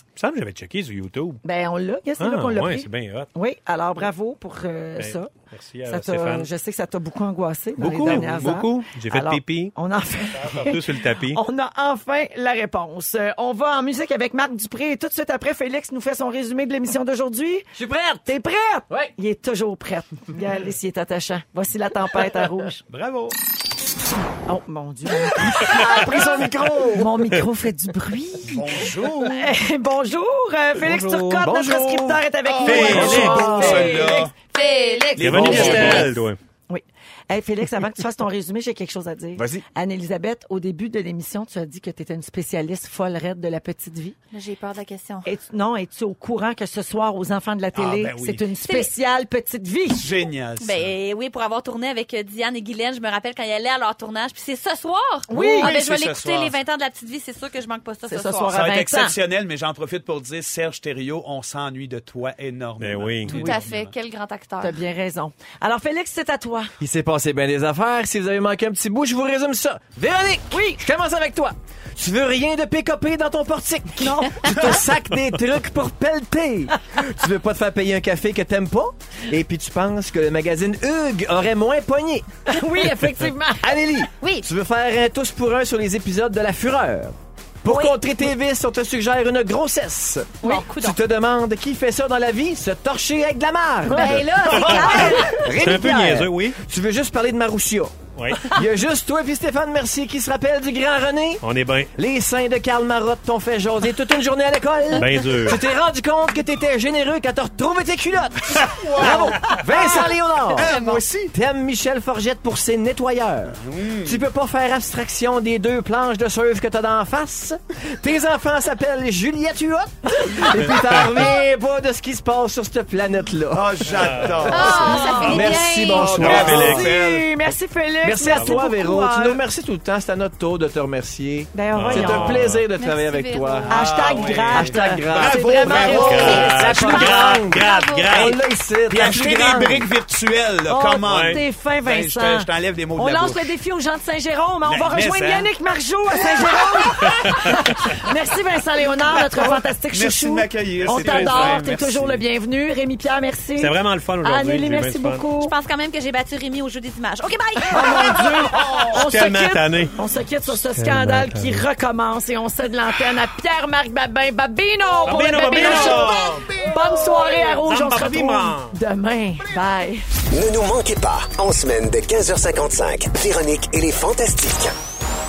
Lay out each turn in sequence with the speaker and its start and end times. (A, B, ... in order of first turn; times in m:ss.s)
0:00.2-0:01.4 A
0:01.4-0:05.3 B
0:02.2-0:03.3 A
0:05.0-0:06.5 A
0:05.9-0:17.7 B
0:07.8-0:09.8 A
0:07.9-0:08.2 C
0:07.9-0:08.2 D
0:10.3-0:11.4 A
0:17.8-0:18.2 D
0:18.2-0:22.8 B
0:22.9-0:23.4 C
0:24.5-0:34.3 B
0:25.6-0:27.3 D
0:25.7-0:26.0 A
0:28.5-0:29.5 C
0:30.8-0:31.5 A
0:31.4-0:34.2 D
0:32.4-0:34.3 C
0:32.6-0:33.5 A
0:33.6-0:33.9 E
0:34.5-0:36.2 E
0:35.2-0:36.1 C
0:35.2-0:36.4 A
0:35.4-0:36.1 B
0:36.7-0:44.2 B
0:39.4-0:39.6 D
0:44.3-0:45.3 E
0:45.2-0:50.1 B
0:47.8-0:48.4 C
0:48.6-0:48.9 E
0:50.0-0:50.9 C
0:50.6-0:58.6 E
0:55.3-0:55.7 B
0:55.3-0:56.6 C
0:58.1-0:59.2 B
0:58.5-1:03.9 C
1:02.8-1:03.6 A
1:03.3-1:04.8 E
1:04.6-1:06.7 B
1:06.8-1:22.3 D
1:10.5-1:10.8 B
1:14.0-1:14.8 B
1:22.5-1:23.8 B
1:23.6-1:41.4 D
1:24.2-1:24.5 E
1:27.7-1:28.0 E
1:30.4-1:31.0 E
1:33.8-1:35.4 B
1:33.9-1:35.4 E
1:34.4-1:36.6 A
1:38.2-1:38.5 A
1:41.4-1:41.9 A
1:42.0-2:06.9 D
1:44.9-1:45.6 A
1:48.6-1:49.6 C
1:49.6-1:51.0 E
1:50.6-1:51.3 C
1:53.6-1:54.2 C
2:00.8-2:01.0 A
2:03.5-2:05.0 C
2:03.9-2:04.6 A
2:04.5-2:06.4 E
2:04.6-2:05.4 B
2:05.3-2:06.9 A
2:06.0-2:07.3 C
2:06.4-2:09.4 B
2:08.0-2:19.9 D
2:08.3-2:08.7 A
2:11.5-2:12.4 B
2:11.7-2:12.6 A
2:12.8-2:13.9 E
2:13.7-2:17.1 B
2:13.7-2:16.5 C
2:14.0-2:18.4 A
2:16.1-2:18.3 E
2:18.9-2:23.5 C
2:20.7-2:35.5 B
2:21.0-2:21.4 A
2:24.6-2:25.5 C
2:26.2-2:27.1 C
2:27.1-2:27.8 A
2:29.3-2:32.2 C
2:30.9-2:31.7 A
2:33.6-2:35.3 A
2:35.4-2:38.2 E
2:37.7-2:50.1 B
2:38.0-2:39.0 C
2:39.0-2:41.7 A
2:45.0-2:46.6 A
2:45.5-2:46.9 C
2:45.6-2:46.0 E
2:47.4-2:48.8 A
2:50.3-2:54.8 F